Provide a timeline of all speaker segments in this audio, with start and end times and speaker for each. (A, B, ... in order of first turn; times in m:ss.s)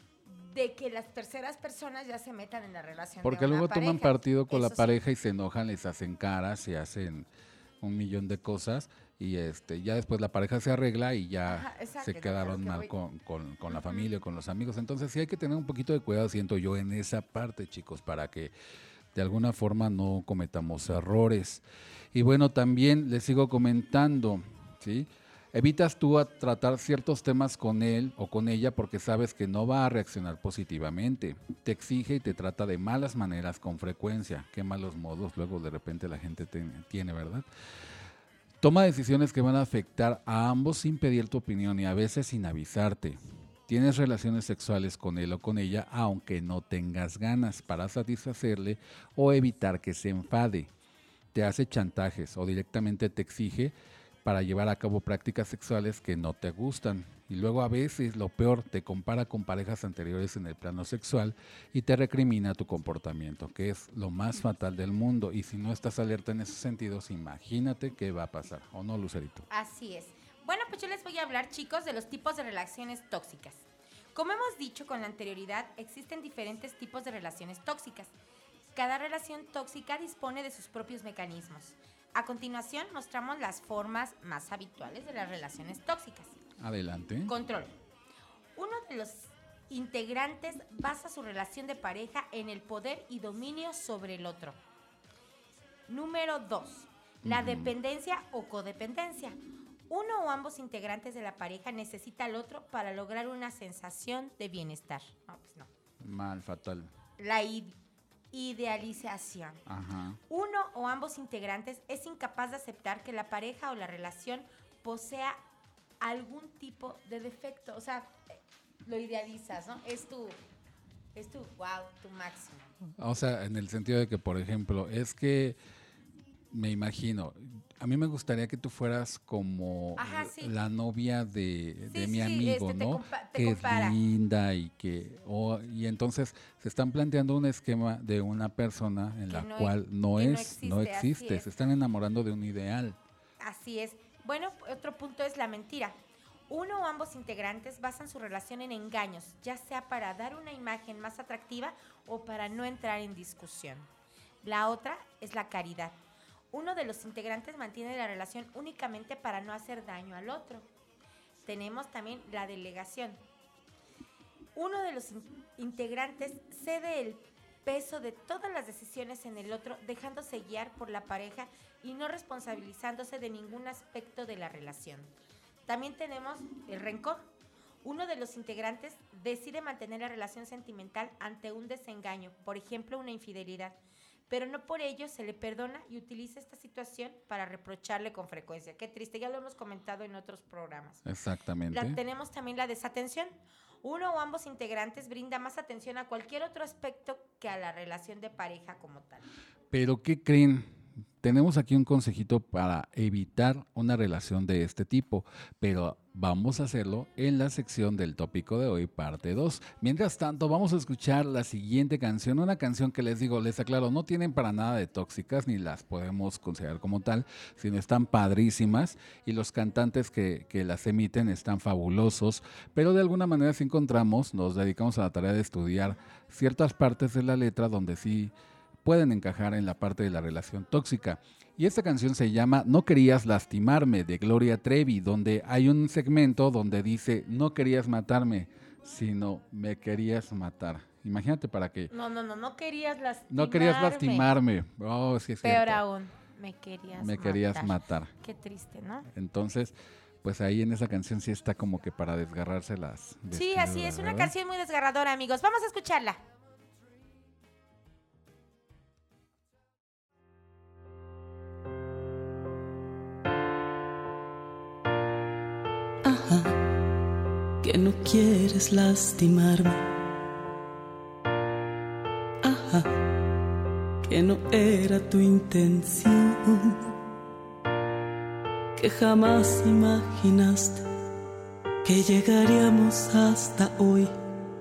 0:00.3-0:05.0 A
0:03.2-0:07.3 B
0:07.8-0:18.5 B
0:11.5-0:12.9 A
0:13.7-0:14.1 A
0:19.1-0:37.5 B
0:38.6-0:50.7 B
0:51.3-1:09.5 B
1:09.5-1:13.6 A
1:14.2-1:18.1 A
1:18.8-1:26.4 A
1:26.6-1:27.3 B
1:27.3-1:27.7 A
1:28.6-1:34.6 A
1:35.9-1:39.4 A
1:37.2-1:37.7 B
1:39.9-1:45.7 A
1:46.0-1:46.9 B
1:47.2-1:47.8 A
1:48.3-1:49.6 A
1:49.7-1:50.2 B
1:50.3-1:55.4 A
1:56.0-2:00.4 A
2:01.2-2:02.7 A
2:03.0-2:05.6 B
2:06.5-2:23.0 B
2:10.0-2:10.5 A
2:11.9-2:14.0 A
2:19.3-2:21.5 A
2:23.4-2:26.0 A
2:26.5-2:33.9 A
2:34.4-2:36.0 A
2:36.5-2:40.7 A
2:41.4-2:43.2 A
2:44.6-2:55.1 A
2:55.7-2:57.3 A
2:57.8-3:03.8 A
3:04.3-3:11.0 A
3:11.0-3:12.0 B
3:11.7-3:19.2 A
3:19.7-4:01.9 B
4:01.9-4:04.3 A
4:03.3-4:05.8 B
4:05.4-4:09.1 A
4:07.0-4:08.1 B
4:09.1-4:14.3 B
4:13.3-4:16.2 A
4:26.0-4:26.6 C
4:27.6-4:29.8 C
4:32.4-4:33.0 C
4:34.1-4:36.9 C
4:38.8-4:40.8 C
4:41.8-4:44.1 C